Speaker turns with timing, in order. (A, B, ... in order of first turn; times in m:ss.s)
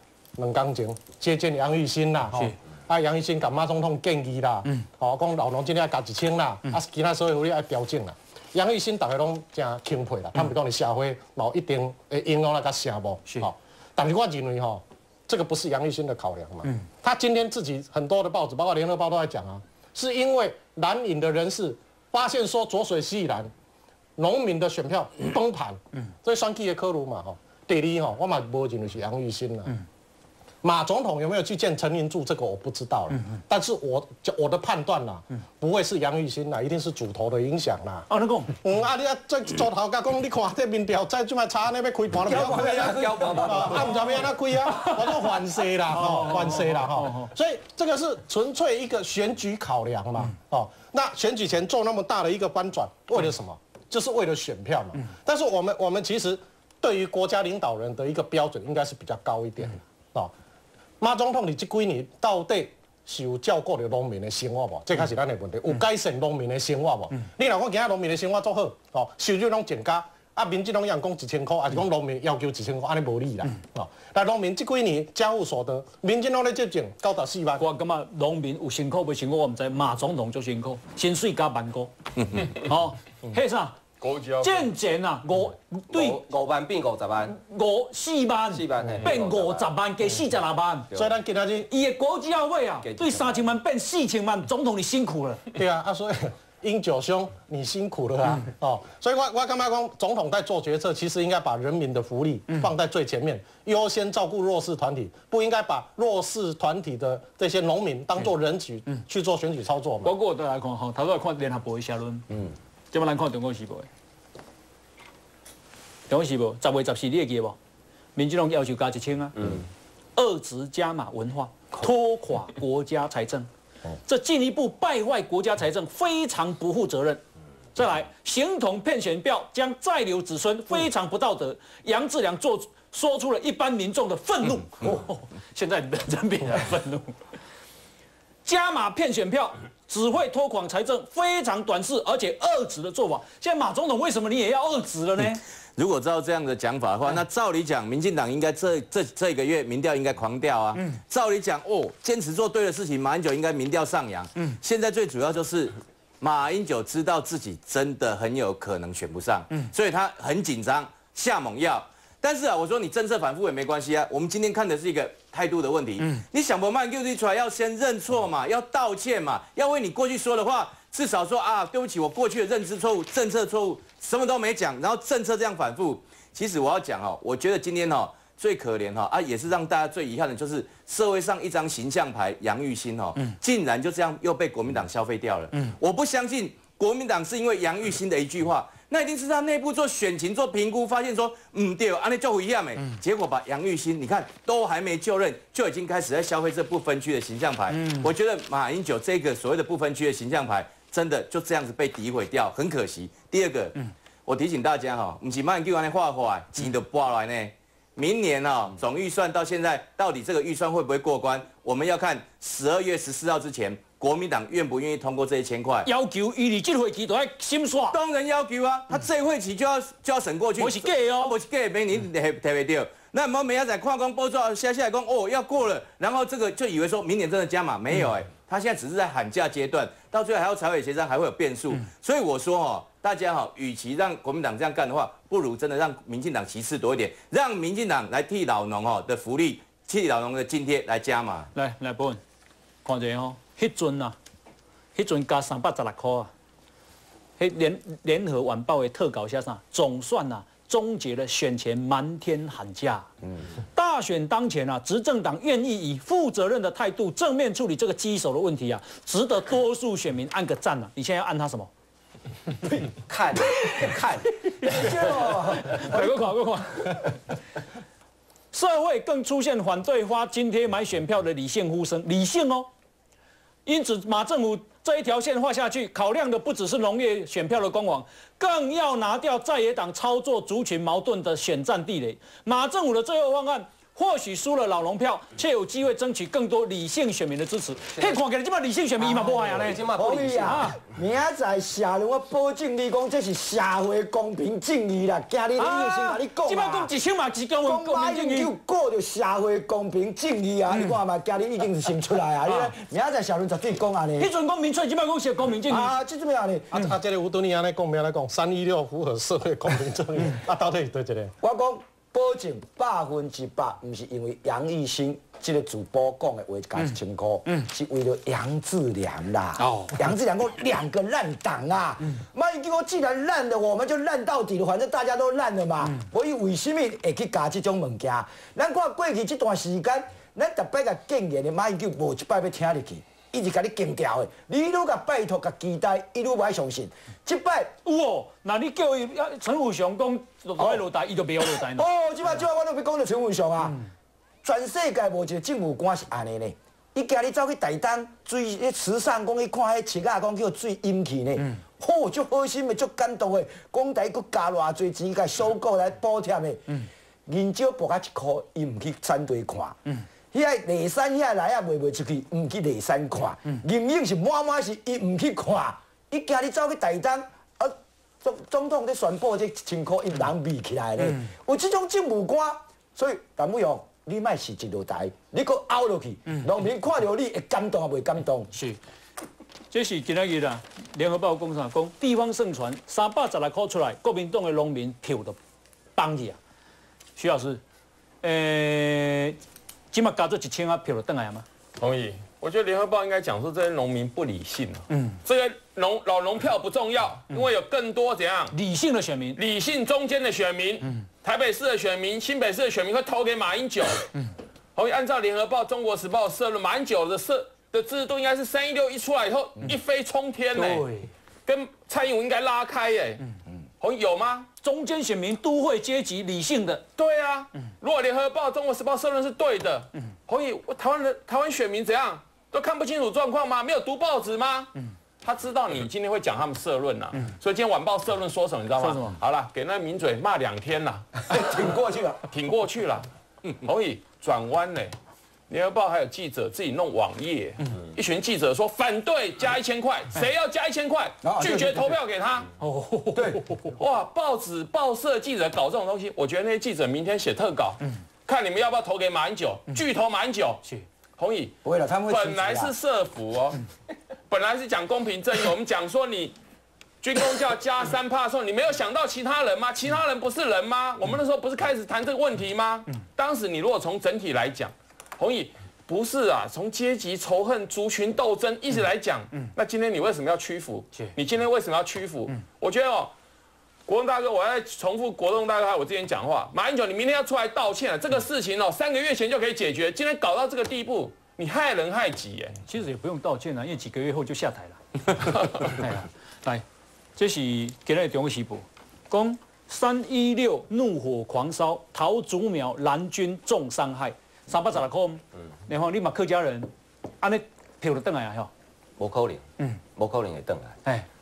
0:00.4-0:23.5 A
0:24.2-0:29.8 A
0:30.6-0:38.1 A
0:38.1-0:38.5 B
0:38.6-1:00.3 A
0:42.3-0:44.1 C
0:42.4-0:43.9 D
0:45.9-0:47.3 B
1:01.0-1:17.6 A
1:17.6-1:23.8 B
1:24.0-1:24.7 E
1:24.4-1:26.2 B
1:25.9-1:27.4 D
1:27.3-1:30.9 B
1:28.5-1:29.7 D
1:30.9-1:31.2 D
1:30.9-1:31.7 A
1:31.7-1:35.5 B
1:32.8-1:33.4 D
1:35.5-1:50.1 A
1:50.0-1:52.3 B
1:52.9-1:53.9 B
1:56.1-1:57.6 B
1:58.2-1:59.5 B
2:00.2-2:03.5 B
2:04.0-2:07.2 B
2:07.8-2:17.2 B
2:18.4-2:25.4 B
2:25.8-3:35.9 F
3:35.8-3:38.0 B
3:37.9-4:01.5 F
3:40.6-3:41.4 B
4:01.5-4:02.2 B
4:02.8-4:04.2 B
4:05.0-4:06.3 B
4:07.4-4:13.1 B
4:13.7-4:21.7 B
4:23.1-4:24.9 D
4:24.7-4:26.2 C
4:24.8-4:27.2 B
4:28.5-4:32.7 B
4:33.6-4:50.8 B
4:48.0-4:48.2 D
4:49.0-4:50.7 D
4:50.0-4:56.9 C
4:55.6-4:58.5 B
4:57.6-5:04.3 C
5:02.4-5:02.8 B
5:04.2-5:06.0 B
5:05.7-5:06.7 C
5:06.7-5:11.3 A
5:11.4-5:37.7 C
5:19.6-5:20.0 B
5:37.8-5:42.4 B
5:40.6-5:40.9 C
5:41.4-5:43.8 C
5:44.4-5:59.8 C
6:00.3-6:18.5 C
6:18.5-6:18.8 B
6:19.7-6:25.4 B
6:26.0-6:26.4 B
6:27.2-6:27.6 B
6:28.2-6:29.4 B
6:29.9-6:31.4 B
6:31.8-6:38.6 E
6:34.9-6:35.2 B
6:38.5-6:39.4 B
6:39.4-6:44.2 E
6:44.8-6:50.9 E
6:50.5-6:51.1 B
6:51.5-6:53.2 E
6:53.8-6:54.5 E
6:54.6-6:56.8 B
6:57.0-7:04.7 E
7:05.2-7:11.0 E
7:08.8-7:09.2 B
7:11.2-7:12.2 C
7:12.3-7:14.9 E
7:15.5-7:22.5 E
7:21.2-7:21.9 C
7:22.6-7:23.7 B
7:23.2-7:23.4 C
7:23.8-7:30.6 E
7:31.2-7:31.6 E
7:31.6-7:32.7 C
7:32.1-7:33.6 E
7:34.3-7:36.4 E
7:37.0-7:53.1 E
7:53.9-8:02.6 E
8:02.7-8:06.6 B
8:07.2-8:18.5 B
8:19.0-8:19.4 D
8:20.0-8:20.8 D